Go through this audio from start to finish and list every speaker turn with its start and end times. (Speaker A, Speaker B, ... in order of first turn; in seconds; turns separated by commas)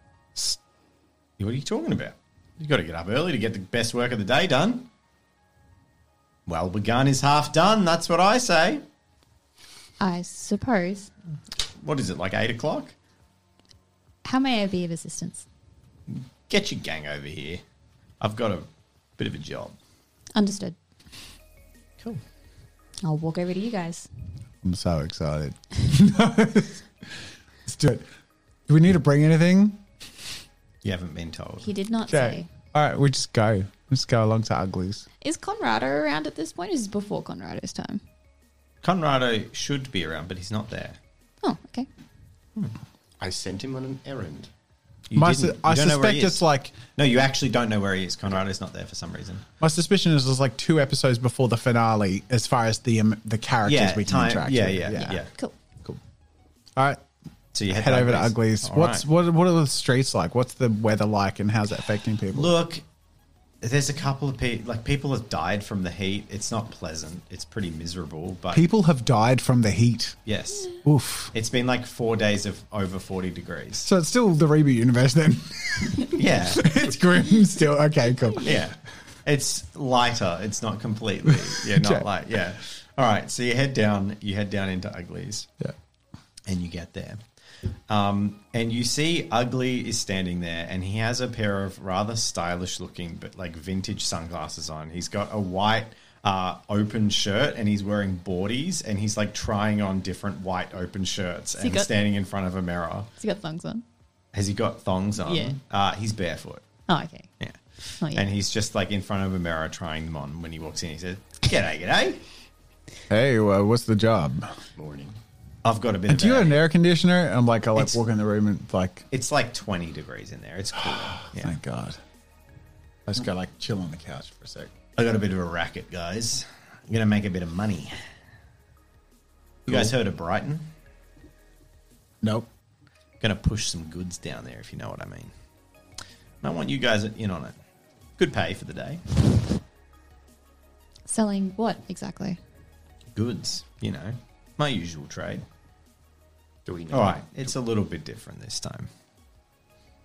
Speaker A: 1.4-4.9, Speaker A: 6.5-8.8, Speaker B: 10.0-11.1, Speaker A: 11.8-12.9, Speaker B: 14.2-15.4, Speaker A: 16.1-17.6, Speaker A: 18.2-19.8, Speaker B: 20.4-20.8, Speaker B: 23.0-24.1, Speaker C: 24.6-26.8, Speaker C: 27.7-28.1, Speaker C: 28.7-29.8, Speaker A: 30.8-31.7, Speaker B: 31.6-32.5, Speaker C: 32.1-35.0, Speaker B: 35.2-38.0, Speaker A: 38.8-41.0, Speaker B: 41.4-41.9, Speaker D: 43.2-44.5, Speaker A: 45.1-46.4, Speaker C: 45.1-46.8, Speaker A: 47.0-49.4, Speaker C: 49.6-55.2, Speaker A: 53.6-55.3, Speaker C: 56.8-57.0, Speaker A: 57.5-59.1, Speaker C: 57.7-62.5, Speaker A: 62.3-62.8, Speaker A: 63.6-68.7, Speaker C: 68.5-70.2, Speaker A: 70.3-70.8, Speaker C: 70.8-71.3, Speaker A: 71.3-73.9, Speaker C: 73.8-78.7, Speaker A: 76.1-76.7, Speaker A: 78.4-85.5, Speaker C: 81.6-82.0, Speaker A: 86.5-87.2, Speaker A: 87.9-103.1, Speaker B: 101.6-101.9, Speaker B: 103.2-103.8, Speaker A: 104.3-106.6, Speaker B: 105.2-105.5, Speaker B: 106.9-107.3, Speaker A: 107.4-112.2, Speaker B: 108.0-108.3, Speaker C: 113.1-114.5, Speaker D: 114.8-115.2, Speaker A: 115.7-116.6, Speaker C: 116.1-119.1, Speaker A: 117.8-118.0, Speaker A: 119.1-121.5, Speaker C: 121.2-122.0, Speaker C: 123.1-124.7, Speaker A: 125.0-128.0, Speaker A: 129.7-130.7, Speaker C: 132.2-132.5, Speaker A: 133.2-135.3, Speaker A: 136.4-137.6, Speaker A: 138.2-139.0, Speaker B: 141.1-142.4, Speaker A: 143.2-145.4, Speaker D: 146.7-147.5, Speaker A: 146.9-148.9